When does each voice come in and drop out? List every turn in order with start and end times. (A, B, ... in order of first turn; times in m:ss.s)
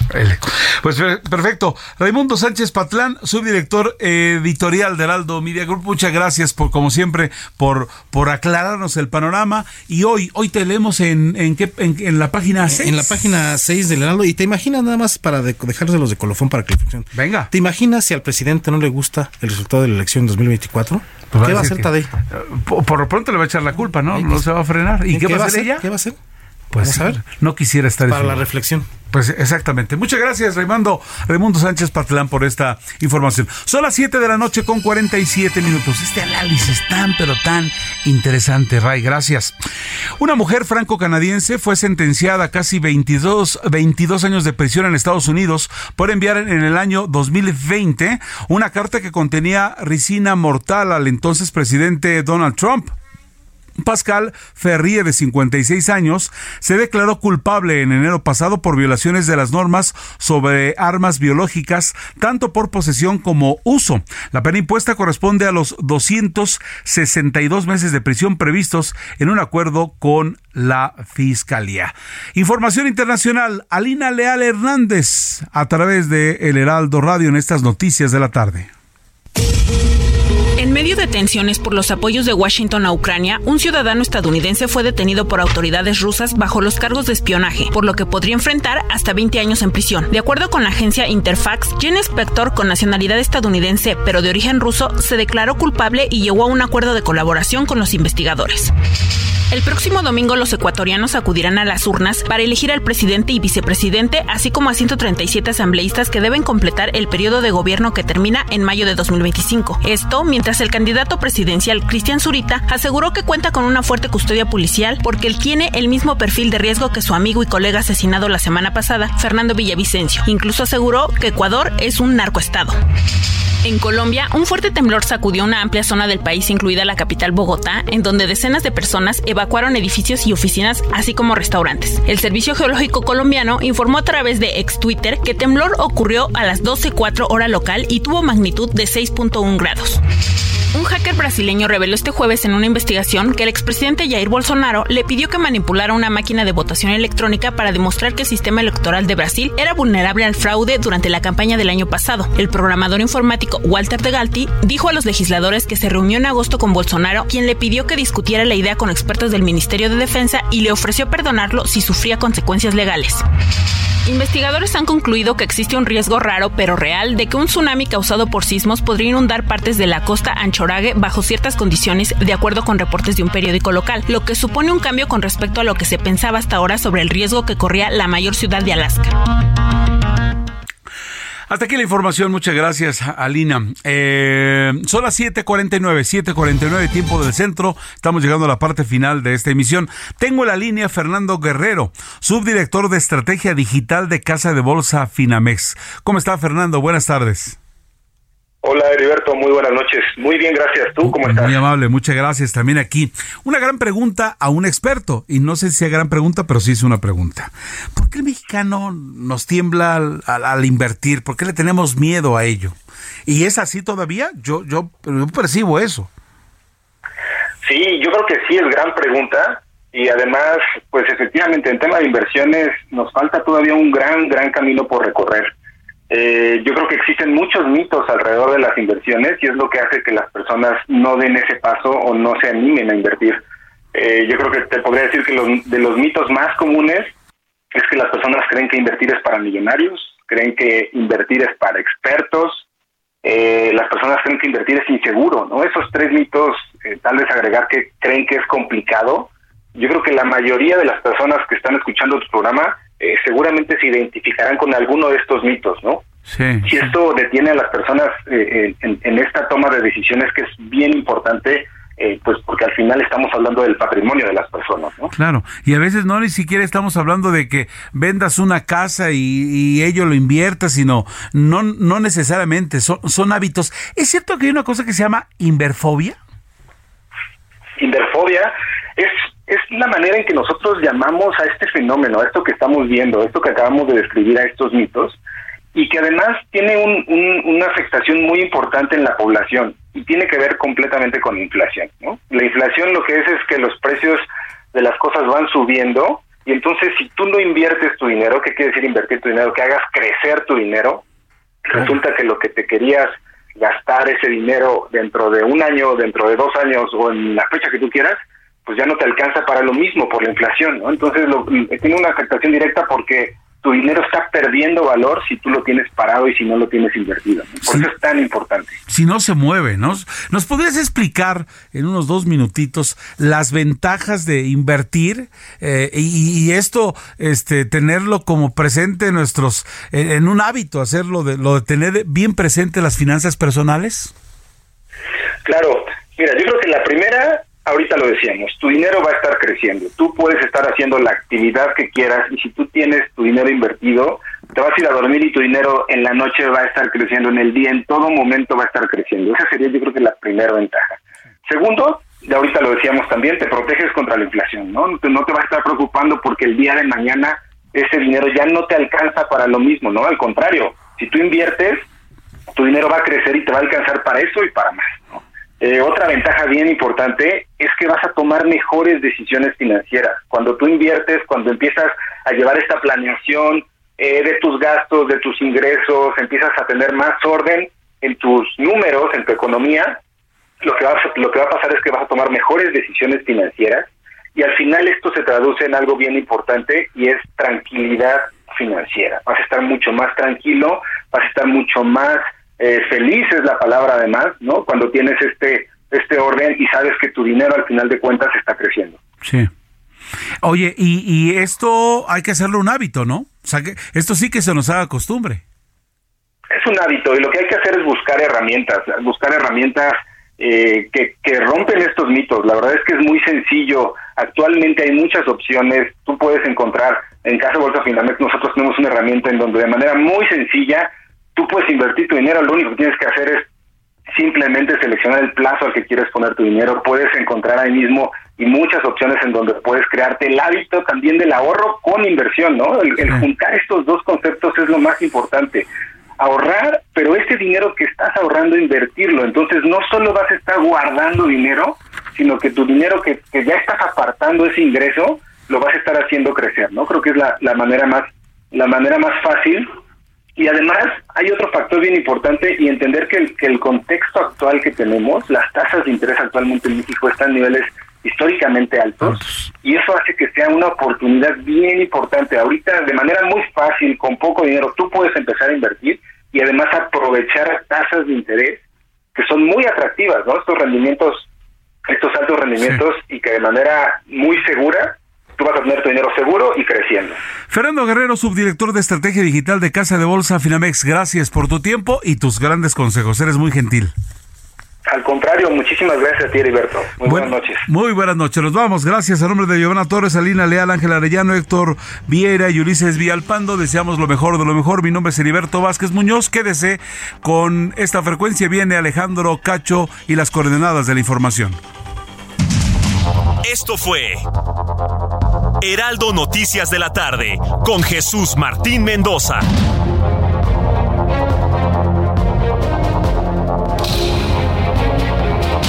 0:00.1-0:13.1 A
0:12.7-0:22.1 B
0:17.1-0:17.5 A
0:21.3-0:25.8 A
0:24.1-0:24.5 B
0:25.1-0:26.2 B
0:26.7-0:28.4 A
0:26.8-0:27.2 B
0:28.1-0:28.9 B
0:29.1-0:39.6 A
0:40.2-0:52.9 A
0:53.8-1:18.7 A
1:20.6-1:38.7 C
1:39.5-2:02.8 C
2:03.6-2:20.0 C
2:20.7-2:43.2 C
2:44.1-2:59.2 C
3:01.5-3:17.6 A
3:18.6-3:21.6 D
3:21.1-3:36.1 A
3:37.6-3:45.5 D
3:46.1-3:53.4 D
3:53.9-3:57.1 D
3:57.7-4:02.6 D
4:03.2-4:16.0 D
4:16.3-4:16.9 A
4:16.6-4:25.1 D
4:25.1-4:36.2 A
4:37.8-4:45.2 D
4:45.7-5:01.0 D
5:01.6-5:18.8 D
5:18.9-5:34.1 A
5:35.4-6:01.9 D
6:02.6-6:20.0 D
6:20.6-6:39.0 D
6:39.2-6:39.5 A
6:40.4-6:45.4 A
6:46.5-7:03.5 D
7:04.1-7:15.7 D
7:16.2-7:29.7 D
7:30.4-7:48.6 D
7:39.0-7:39.5 A
7:49.2-7:51.3 D
7:51.9-7:57.2 D
7:57.5-8:03.9 A
8:04.9-8:07.6 D
8:07.0-8:21.6 A
8:23.4-8:24.2 E
8:25.6-8:29.5 E